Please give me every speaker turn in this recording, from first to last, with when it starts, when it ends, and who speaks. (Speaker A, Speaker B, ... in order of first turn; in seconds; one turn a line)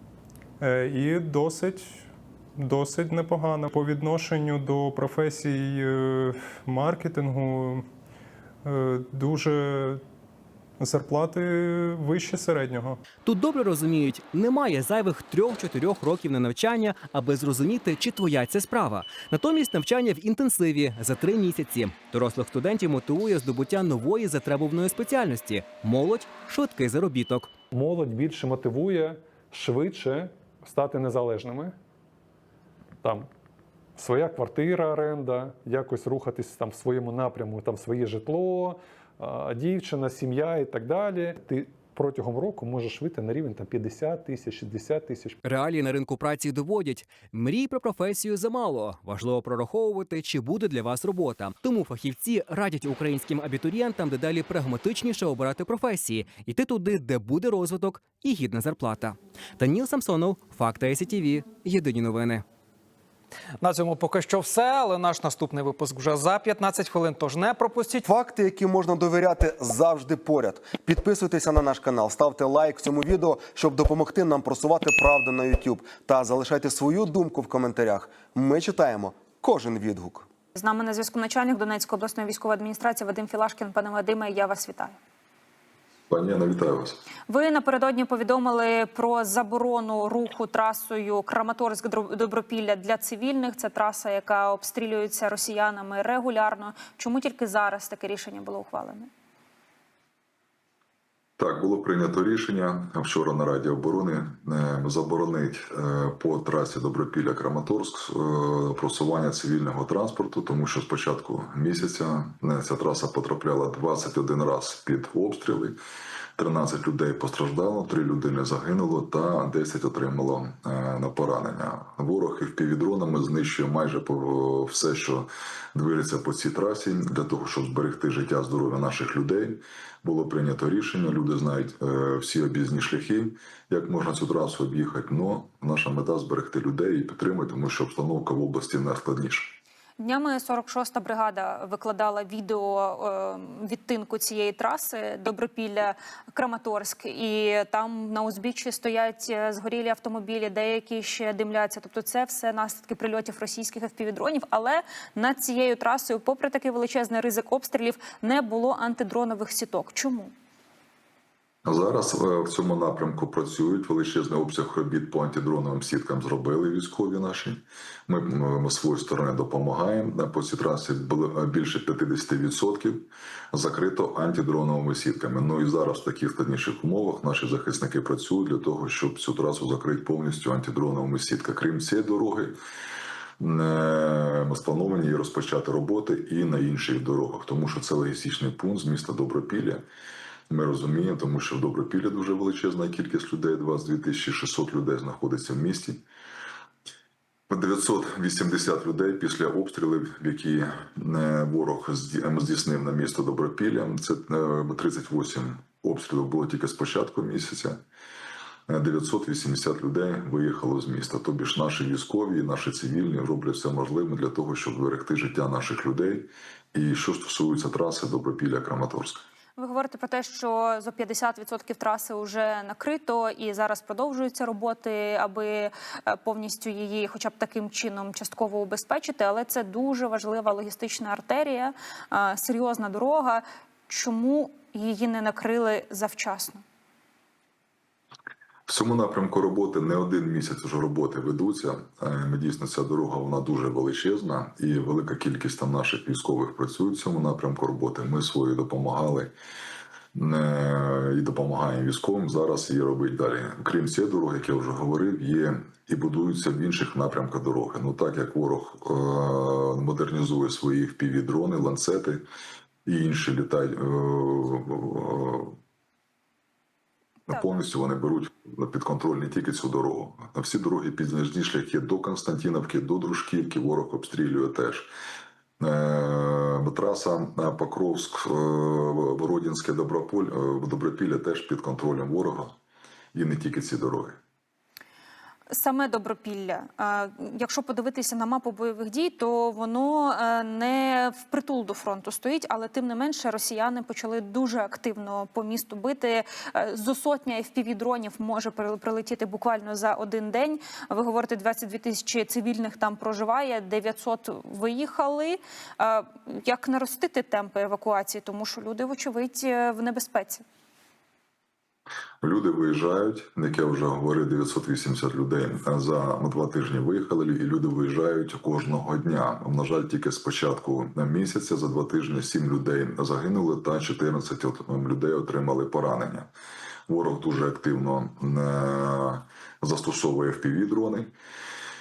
Speaker A: 0.6-7.8
Speaker A: 8.6-10.0
Speaker A: 10.8-13.0
Speaker B: 13.2-27.5
Speaker C: 27.7-31.8
Speaker C: 33.0-33.3
Speaker C: 34.0-45.4
Speaker B: 45.4-62.4
Speaker D: 63.6-68.1
Speaker E: 68.0-80.3
Speaker F: 80.5-85.0
Speaker G: 86.1-87.0
Speaker F: 87.3-99.1
Speaker G: 101.4-115.8
Speaker G: 116.4-139.6
Speaker F: 140.0-160.3
Speaker G: 161.6-182.6
Speaker G: 183.4-189.8
Speaker G: 190.5-196.0
Speaker G: 197.5-207.8
Speaker G: 208.7-219.2
Speaker F: 219.6-236.6
Speaker G: 238.7-249.3
Speaker G: 250.1-262.2
Speaker G: 262.9-265.6
Speaker G: 267.3-274.9
Speaker G: 275.6-282.5
Speaker G: 283.1-284.2
Speaker F: 285.5-310.4
Speaker G: 312.2-326.3
Speaker G: 326.9-331.1